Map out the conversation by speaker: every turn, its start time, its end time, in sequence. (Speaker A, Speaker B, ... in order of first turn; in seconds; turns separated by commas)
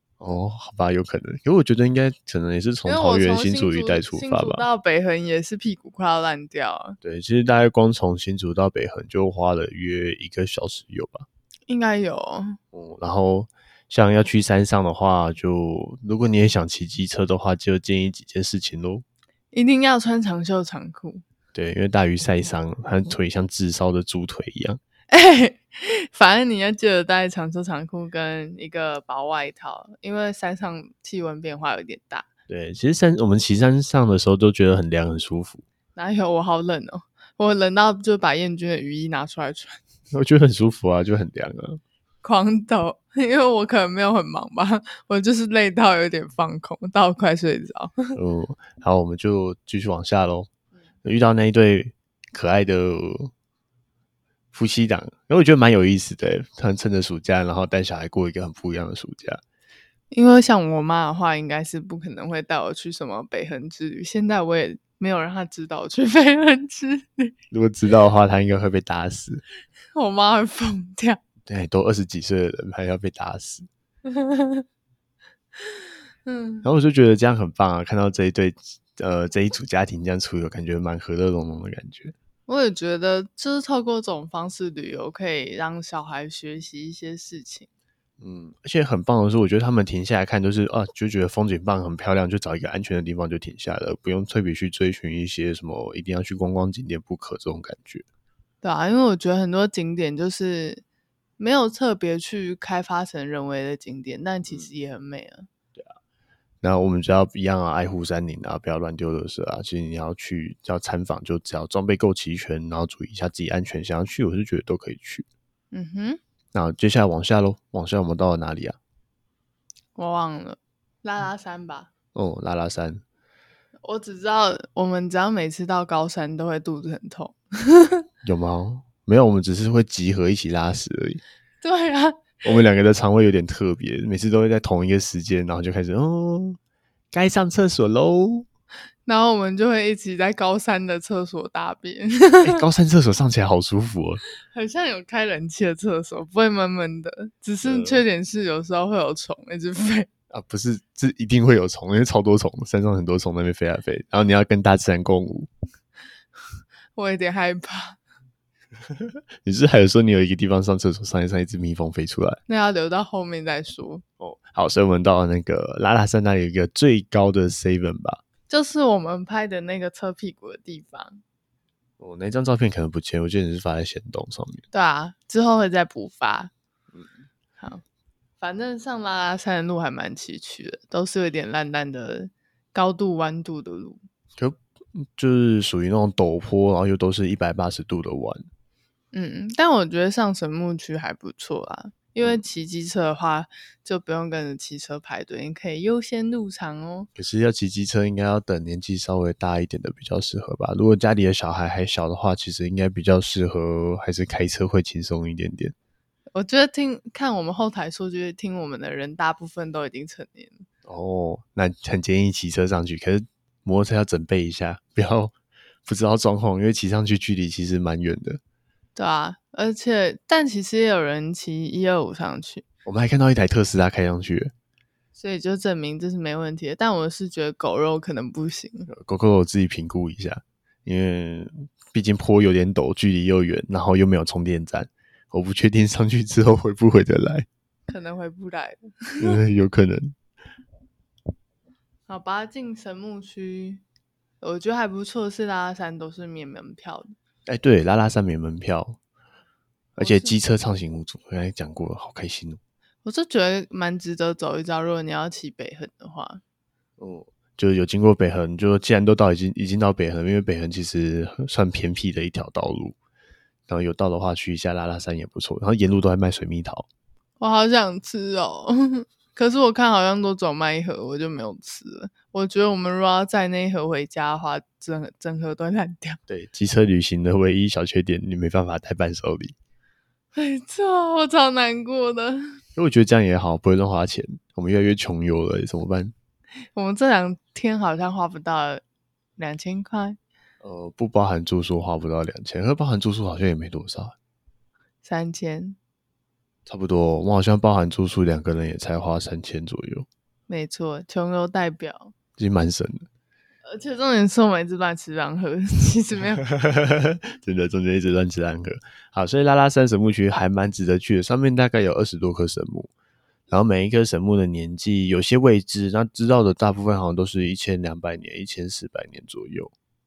Speaker A: 0.2-4.6, Speaker B: 2.8-7.0, Speaker A: 7.0-11.3, Speaker B: 11.7-12.6, Speaker A: 12.7-19.0, Speaker B: 19.5-21.2, Speaker A: 21.5-24.8, Speaker B: 25.1-32.3, Speaker A: 32.5-35.6, Speaker B: 36.0-39.8, Speaker A: 40.1-41.8, Speaker B: 42.2-48.1, Speaker A: 48.1-50.5, Speaker A: 51.0-53.3, Speaker A: 54.5-59.4, Speaker B: 60.1-67.3, Speaker A: 67.5-69.4, Speaker B: 69.9-71.2, Speaker A: 71.5-73.7, Speaker B: 74.0-74.6, Speaker B: 76.2-76.7, Speaker A: 76.6-82.1, Speaker B: 82.5-87.7, Speaker A: 88.2-98.0, Speaker B: 98.6-100.8, Speaker B: 101.4-105.5, Speaker A: 106.6-115.2, Speaker B: 115.7-116.2, Speaker A: 116.5-118.8, Speaker B: 120.0-121.9, Speaker A: 122.1-123.0, Speaker B: 123.8-128.0, Speaker A: 128.2-131.2, Speaker B: 131.6-132.4, Speaker A: 132.4-136.6, Speaker A: 137.1-138.5, Speaker B: 139.1-142.6, Speaker A: 142.4-144.2, Speaker B: 144.5-150.1, Speaker A: 147.6-148.0, Speaker A: 150.3-155.5, Speaker B: 156.9-158.0, Speaker A: 159.4-162.4, Speaker B: 162.5-164.0, Speaker A: 164.2-168.2, Speaker B: 168.5-171.2, Speaker A: 172.0-174.6, Speaker B: 174.7-176.5, Speaker B: 178.4-184.0, Speaker A: 185.1-188.4, Speaker B: 189.1-197.1, Speaker A: 197.2-205.7, Speaker B: 206.3-210.6, Speaker A: 210.8-215.3, Speaker A: 215.8-218.4, Speaker B: 218.9-222.6, Speaker A: 222.8-224.5, Speaker B: 225.2-228.9, Speaker A: 228.9-237.5, Speaker B: 237.9-239.4, Speaker A: 239.2-240.1, Speaker B: 242.1-243.8, Speaker B: 244.4-247.1, Speaker A: 247.5-249.0, Speaker A: 249.9-252.6, Speaker B: 250.0-250.3, Speaker B: 253.0-256.4, Speaker A: 257.0-262.9, Speaker A: 263.7-266.9, Speaker B: 267.4-276.2, Speaker A: 276.3-279.5, Speaker B: 280.3-282.6, Speaker A: 282.8-286.1, Speaker B: 286.7-288.8, Speaker B: 289.4-290.2, Speaker A: 290.6-294.1, Speaker B: 295.0-295.8, Speaker A: 296.7-300.1, Speaker B: 300.5-302.1, Speaker A: 302.4-303.1, Speaker B: 303.6-306.4, Speaker A: 306.4-312.9, Speaker A: 313.5-319.7